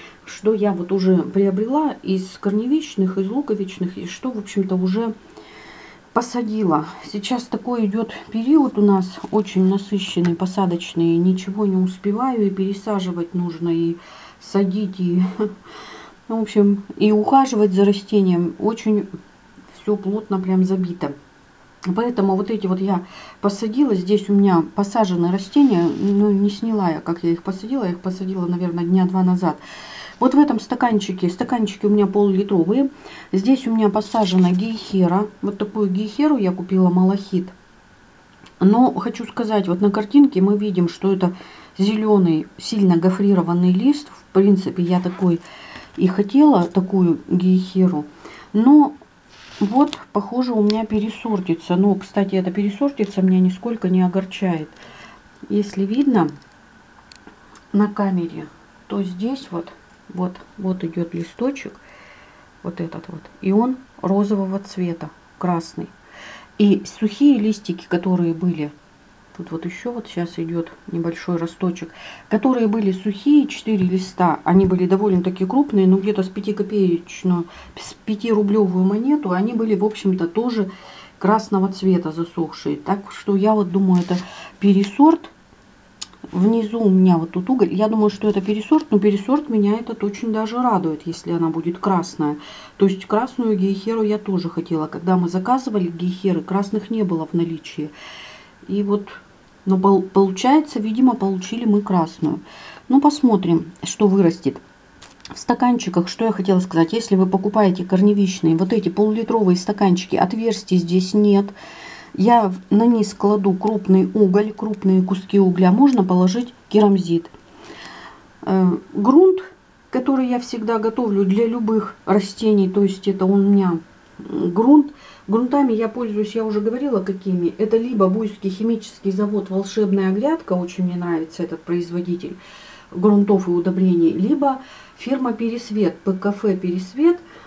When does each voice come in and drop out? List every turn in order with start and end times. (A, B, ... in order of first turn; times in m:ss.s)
0:00.2-0:05.1 A
0:06.1-0:15.5 A
0:16.3-0:19.1 A
0:19.7-0:21.1 A
0:21.9-0:29.6 A
0:30.2-0:37.5 A
0:38.6-0:45.4 A
0:46.0-0:49.0 A
0:49.6-0:54.8 A
0:55.5-0:56.3 A
0:57.7-1:01.8 A
1:02.6-1:05.9 A
1:06.6-1:08.7 A
1:09.3-1:25.3 A
1:26.3-1:37.9 A
1:38.6-1:44.6 A
1:45.3-1:51.5 A
1:52.1-1:57.3 A
1:58.4-2:12.4 A
2:12.9-2:17.2 A